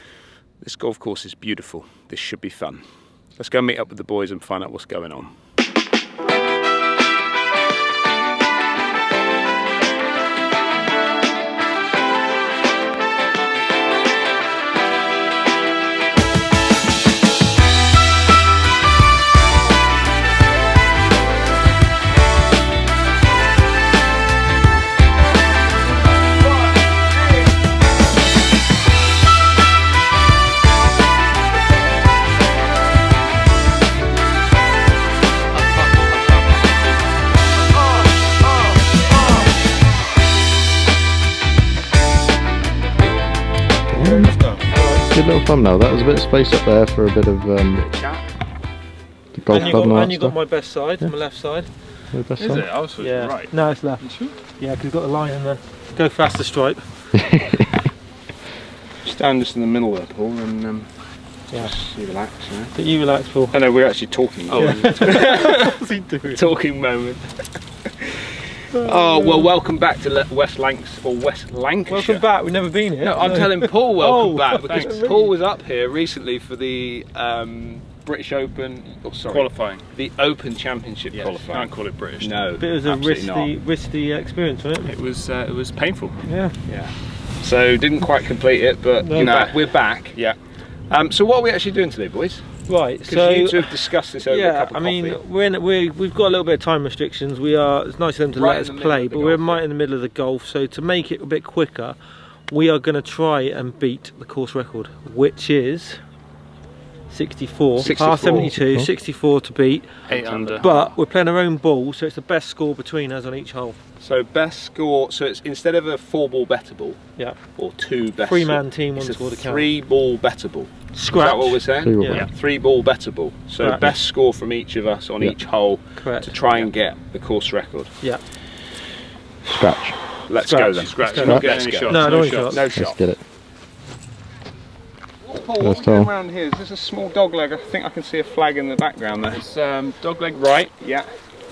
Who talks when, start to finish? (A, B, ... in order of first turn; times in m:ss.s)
0:00.6-0:02.8 A
0:03.4-0:05.3 A
0:43.9-0:47.8 B
0:44.0-0:45.0 C
0:47.8-0:48.2 A
0:49.3-0:50.4 B
0:49.5-0:51.7 C
0:52.1-0:52.7 B
0:52.4-0:54.3 D
0:53.0-0:54.0 C
0:54.6-0:56.8 C
0:57.1-0:57.8 B
0:59.0-1:00.9 A
1:01.5-1:02.7 A
1:02.8-1:03.6 C
1:03.5-1:05.7 A
1:04.5-1:05.5 D
1:04.6-1:06.5 C
1:06.3-1:07.3 A
1:08.0-1:12.2 A
1:08.7-1:09.4 C
1:11.9-1:15.3 C
1:13.0-1:23.5 A
1:14.6-1:15.0 D
1:19.3-1:19.8 D
1:21.1-1:22.4 D
1:22.6-1:24.9 C
1:24.8-1:26.2 D
1:26.2-1:26.6 C
1:26.7-1:30.3 A
1:29.0-1:29.5 C
1:29.3-1:29.5 D
1:30.9-1:32.5 A
1:32.7-1:42.0 C
1:33.1-1:35.2 A
1:38.3-1:39.6 A
1:42.5-1:46.0 C
1:47.1-1:49.9 C
1:47.8-1:48.6 A
1:48.6-1:48.9 B
1:50.1-1:50.7 D
1:50.1-1:50.9 A
1:50.6-1:53.8 C
1:54.0-1:57.0 A
1:57.6-2:07.9 A
1:58.2-1:59.7 C
2:00.9-2:02.2 C
2:01.8-2:02.3 B
2:03.6-2:03.9 C
2:06.0-2:06.6 C
2:09.4-2:10.0 B
2:10.3-2:13.0 A
2:10.4-2:12.6 C
2:10.7-2:12.7 D
2:12.8-2:13.2 B
2:15.2-2:19.4 A
2:15.6-2:16.1 B
2:19.3-2:20.7 D
2:20.8-2:21.1 A